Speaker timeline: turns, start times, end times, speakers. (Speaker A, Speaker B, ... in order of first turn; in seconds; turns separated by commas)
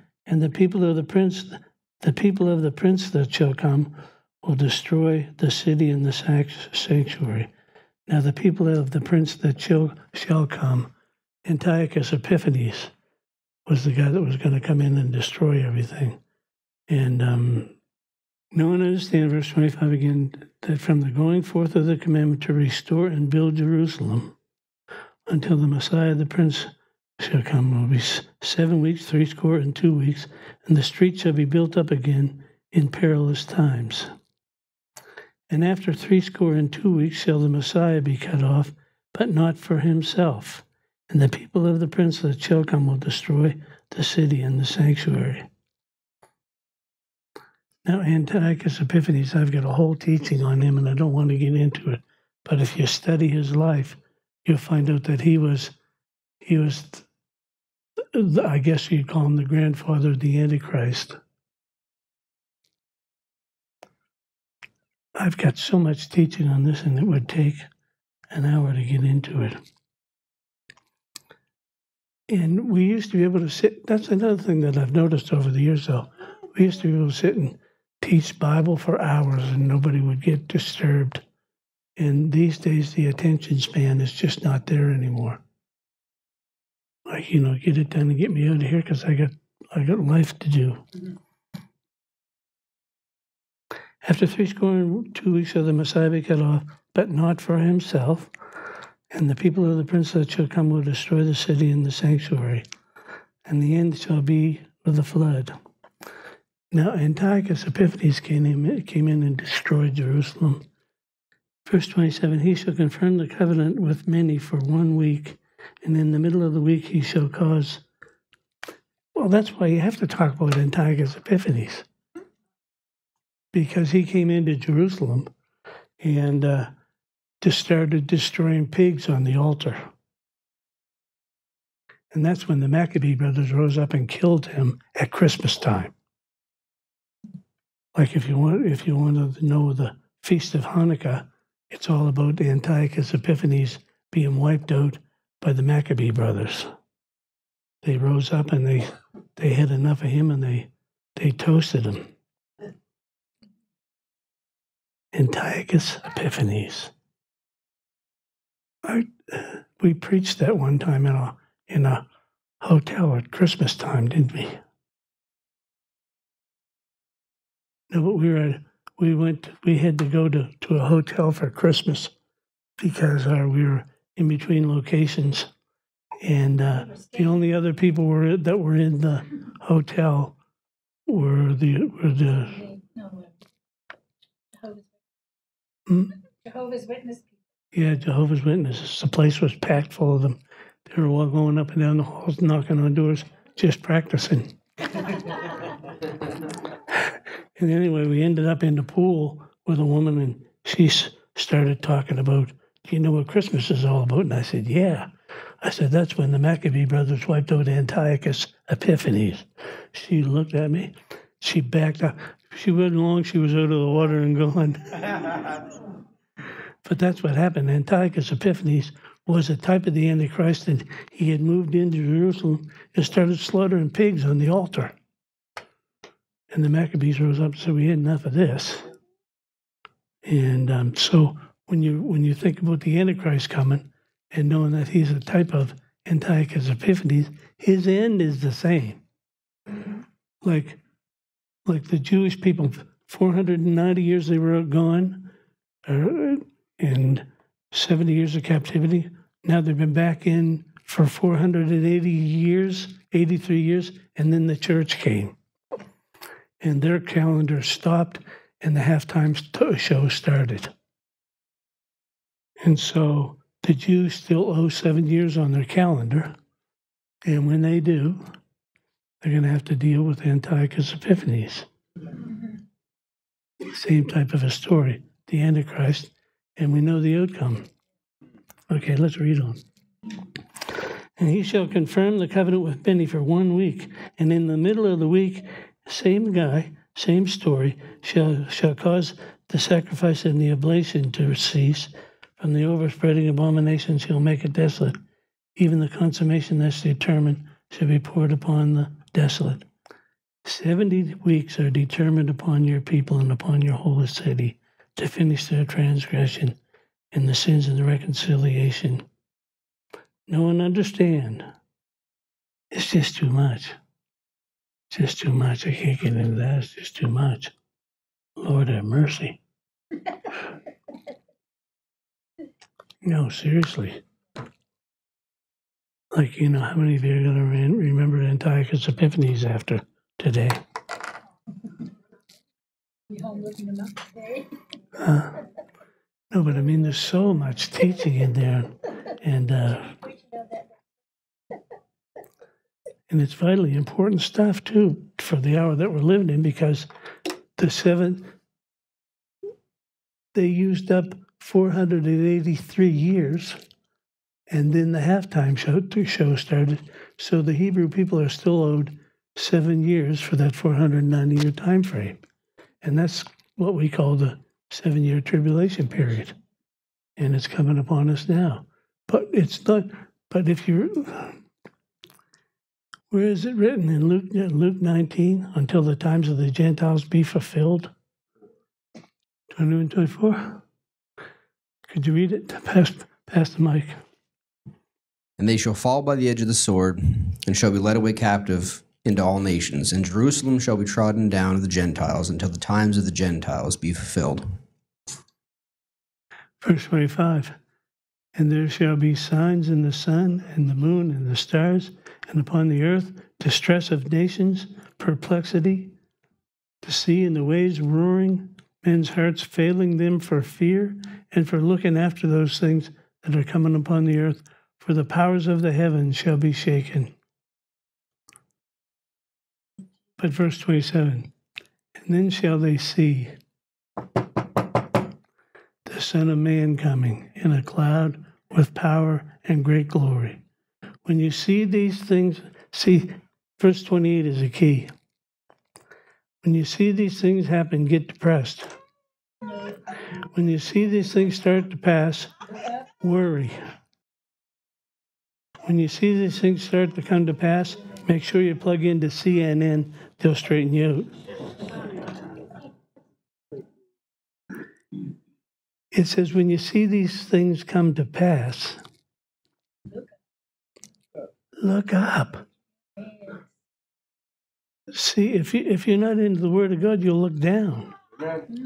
Speaker A: 0.3-7.5, Speaker A: 8.1-10.9, Speaker A: 11.4-12.9, Speaker A: 13.7-16.2, Speaker A: 16.9-17.8, Speaker A: 18.5-24.4, Speaker A: 25.3-34.1, Speaker A: 35.5-45.5, Speaker A: 47.9-55.8, Speaker A: 56.4-57.1, Speaker A: 58.1-61.2, Speaker A: 65.2-67.7, Speaker A: 68.3-69.6, Speaker A: 72.3-81.2, Speaker A: 82.0-85.4, Speaker A: 87.1-90.8, Speaker A: 94.0-98.3, Speaker A: 99.1-102.7, Speaker A: 103.5-105.6, Speaker A: 106.7-110.7, Speaker A: 111.7-117.8, Speaker A: 119.2-121.9, Speaker A: 123.5-125.3, Speaker A: 126.0-126.7, Speaker A: 127.4-129.9, Speaker A: 132.1-135.9, Speaker A: 137.9-146.7, Speaker A: 147.8-152.1, Speaker A: 155.1-156.9, Speaker A: 158.8-162.1, Speaker A: 162.6-164.6, Speaker A: 167.9-172.1, Speaker A: 172.8-175.5, Speaker A: 176.2-180.4, Speaker B: 176.9-177.2, Speaker A: 181.1-182.6, Speaker B: 182.5-183.4, Speaker B: 184.6-184.9, Speaker A: 185.9-186.1, Speaker B: 186.4-187.3, Speaker A: 187.7-195.1, Speaker A: 196.9-215.4, Speaker A: 216.8-225.0, Speaker A: 226.5-228.9, Speaker A: 230.2-239.0, Speaker A: 240.4-240.8, Speaker A: 241.7-245.3, Speaker A: 245.8-255.4, Speaker A: 256.6-260.7, Speaker A: 262.6-266.4, Speaker A: 267.2-268.2, Speaker A: 269.2-271.7, Speaker A: 273.6-277.7, Speaker A: 278.7-279.6, Speaker A: 281.2-295.0, Speaker A: 295.6-299.7, Speaker A: 300.4-306.6, Speaker A: 307.1-309.1, Speaker A: 310.3-311.5, Speaker A: 312.7-313.8, Speaker A: 314.9-317.5, Speaker A: 318.4-319.4, Speaker A: 323.0-324.0, Speaker A: 326.1-330.6, Speaker B: 333.1-334.5, Speaker A: 335.0-335.4, Speaker A: 336.3-340.0, Speaker B: 340.1-340.7, Speaker A: 343.1-346.9, Speaker A: 347.6-348.3, Speaker A: 350.3-353.6, Speaker A: 354.5-362.2, Speaker A: 362.8-366.4, Speaker A: 367.2-371.4, Speaker A: 373.1-377.9, Speaker A: 379.5-380.6, Speaker A: 381.9-384.0, Speaker C: 385.4-394.5, Speaker A: 396.6-397.6, Speaker A: 398.4-405.9, Speaker A: 406.8-417.1, Speaker A: 420.2-421.3, Speaker A: 422.0-423.4, Speaker A: 425.9-430.4, Speaker A: 431.1-434.9, Speaker A: 436.4-438.8, Speaker B: 439.5-439.8, Speaker A: 440.2-442.3, Speaker A: 443.0-443.6, Speaker A: 445.6-451.1, Speaker A: 455.9-458.8, Speaker A: 461.6-462.4, Speaker B: 463.0-463.4, Speaker A: 464.9-467.9